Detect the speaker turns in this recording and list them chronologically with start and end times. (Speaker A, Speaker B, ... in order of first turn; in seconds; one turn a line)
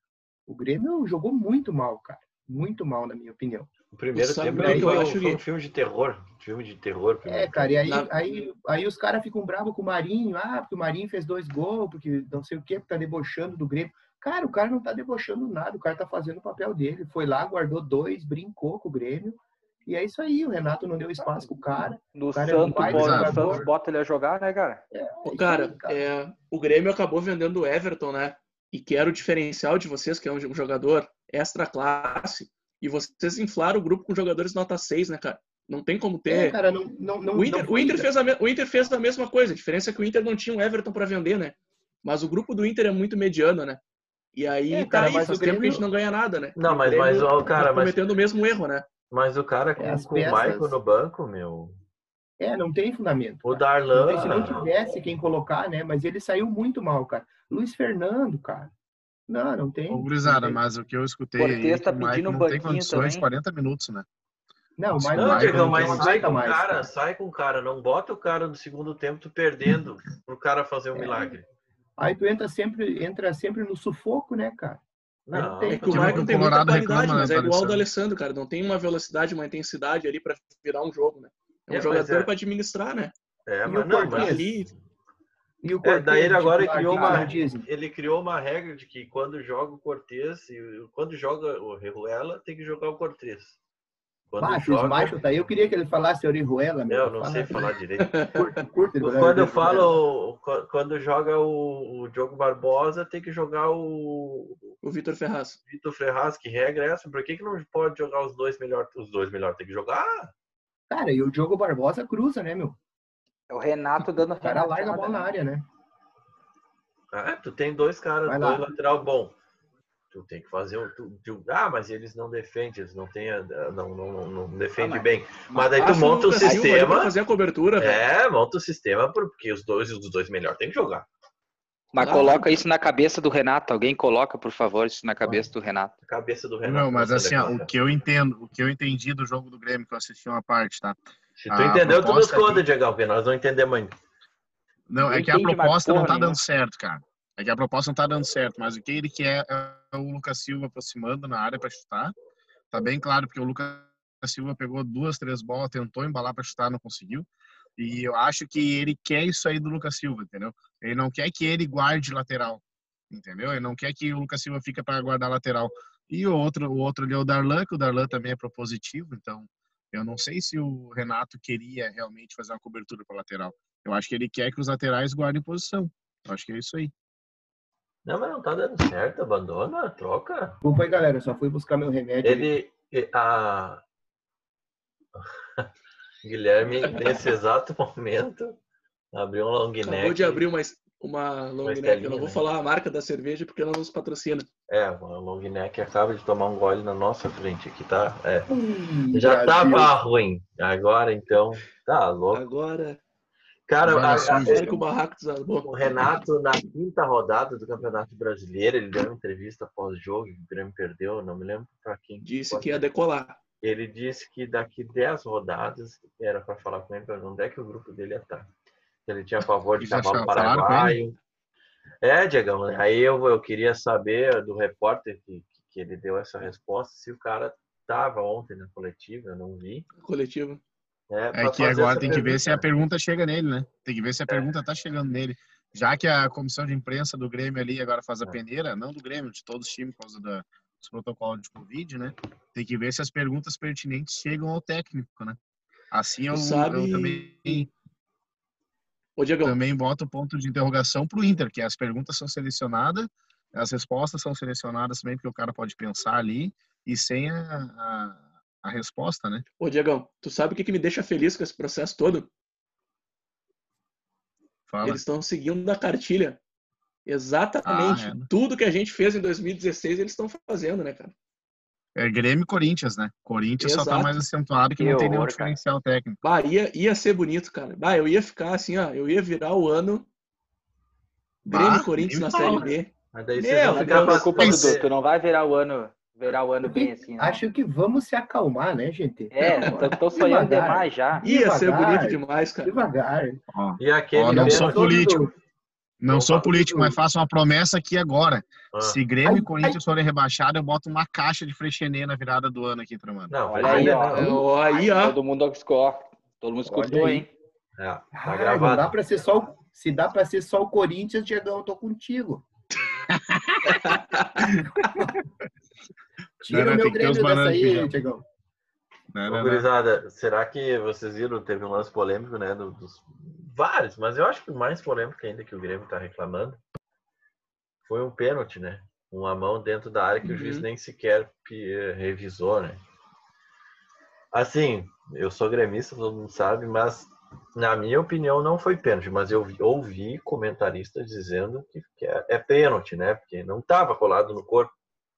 Speaker A: 0.5-3.7
Speaker B: 3.9-7.8
Speaker C: 4.1-5.4
Speaker A: 4.6-5.1
Speaker A: 7.2-23.7
Speaker C: 7.8-8.1
Speaker D: 22.1-24.8
Speaker E: 22.9-23.6
Speaker A: 24.9-26.0
Speaker C: 25.2-36.6
Speaker A: 36.3-38.1
Speaker C: 37.3-43.8
Speaker C: 44.3-48.8
Speaker A: 44.7-45.8
Speaker B: 46.5-48.0
Speaker B: 49.1-51.8
Speaker A: 49.8-50.8
Speaker A: 52.4-58.7
Speaker B: 53.4-54.7
Speaker A: 59.3-60.1
Speaker E: 59.9-64.0
Speaker B: 60.3-60.5
Speaker D: 61.4-63.2
Speaker A: 64.8-66.9
Speaker E: 64.9-66.5
Speaker B: 65.1-71.5
Speaker A: 70.9-71.3
Speaker A: 72.0-76.5
Speaker B: 75.3-76.2
Speaker C: 75.7-83.1
Speaker E: 75.9-77.8
Speaker B: 81.7-82.3
Speaker B: 83.5-84.7
Speaker A: 83.7-84.5
Speaker C: 84.1-84.7
Speaker A: 85.6-87.6
Speaker B: 85.8-93.6
Speaker D: 87.0-87.2
Speaker B: 94.3-95.5
Speaker A: 94.4-97.7
Speaker B: 96.9-98.2
Speaker C: 98.0-98.3
Speaker A: 98.3-100.0
Speaker B: 99.0-104.7
Speaker C: 104.8-105.6
Speaker B: 105.7-110.3
Speaker A: 110.9-112.8
Speaker D: 113.5-115.3
Speaker A: 114.4-115.6
Speaker B: 117.1-119.3
Speaker A: 118.2-118.7
Speaker B: 120.1-127.1
Speaker D: 124.8-126.8
Speaker C: 125.8-128.0
Speaker B: 127.8-131.1
Speaker D: 131.9-135.9
Speaker C: 132.0-132.5
Speaker B: 136.0-137.7
Speaker E: 136.6-141.0
Speaker B: 141.4-143.9
Speaker E: 141.5-142.6
Speaker E: 144.9-152.1
Speaker D: 145.0-146.4
Speaker E: 152.7-176.9
Speaker B: 178.1-180.6
Speaker A: 180.6-182.5
Speaker B: 182.2-183.8
Speaker B: 185.2-185.7
Speaker B: 186.2-188.6
Speaker B: 189.1-190.4
Speaker C: 189.8-194.5
Speaker B: 191.6-192.4
Speaker B: 194.7-198.5
Speaker A: 198.5-199.9
Speaker B: 199.1-202.4
Speaker C: 202.3-203.0
Speaker B: 203.7-204.8
Speaker E: 203.8-204.8
Speaker C: 204.0-205.7
Speaker B: 205.6-212.8
Speaker C: 212.2-213.4
Speaker B: 213.6-218.5
Speaker B: 219.1-221.2
Speaker E: 219.8-221.0
Speaker B: 222.0-229.9
Speaker C: 230.0-230.6
Speaker B: 231.1-232.7
Speaker E: 231.3-245.4
Speaker C: 231.9-232.3
Speaker E: 245.9-247.7
Speaker C: 246.3-247.7
Speaker C: 249.2-249.6
Speaker E: 249.4-259.4
Speaker C: 259.6-262.3
Speaker E: 264.7-265.0
Speaker C: 264.8-266.4
Speaker C: 267.1-271.1
Speaker E: 267.6-268.3
Speaker E: 271.9-276.2
Speaker C: 273.6-274.2
Speaker D: 274.8-275.6
Speaker C: 276.2-280.1
Speaker E: 281.4-282.7
Speaker C: 281.5-284.3
Speaker B: 283.1-284.9
Speaker D: 283.7-287.4
Speaker E: 284.4-284.8
Speaker A: 286.6-293.4
Speaker D: 289.3-291.2
Speaker C: 289.4-290.0
Speaker C: 291.2-292.7
Speaker E: 293.5-295.3
Speaker B: 293.8-295.1
Speaker A: 294.3-295.3
Speaker E: 296.0-303.4
Speaker B: 296.1-296.8
Speaker A: 296.7-296.9
Speaker B: 298.7-299.0
Speaker A: 299.2-299.8
Speaker B: 303.3-304.3
Speaker D: 303.5-307.3
Speaker C: 303.6-305.2
Speaker A: 306.6-307.2
Speaker B: 307.8-308.9
Speaker A: 308.2-312.4
Speaker E: 313.1-315.1
Speaker C: 313.6-314.5
Speaker A: 314.8-315.1
Speaker A: 316.4-318.2
Speaker E: 316.5-317.9
Speaker E: 319.1-319.6
Speaker B: 319.3-326.6
Speaker B: 327.8-332.8
Speaker C: 330.2-330.7
Speaker B: 334.3-344.7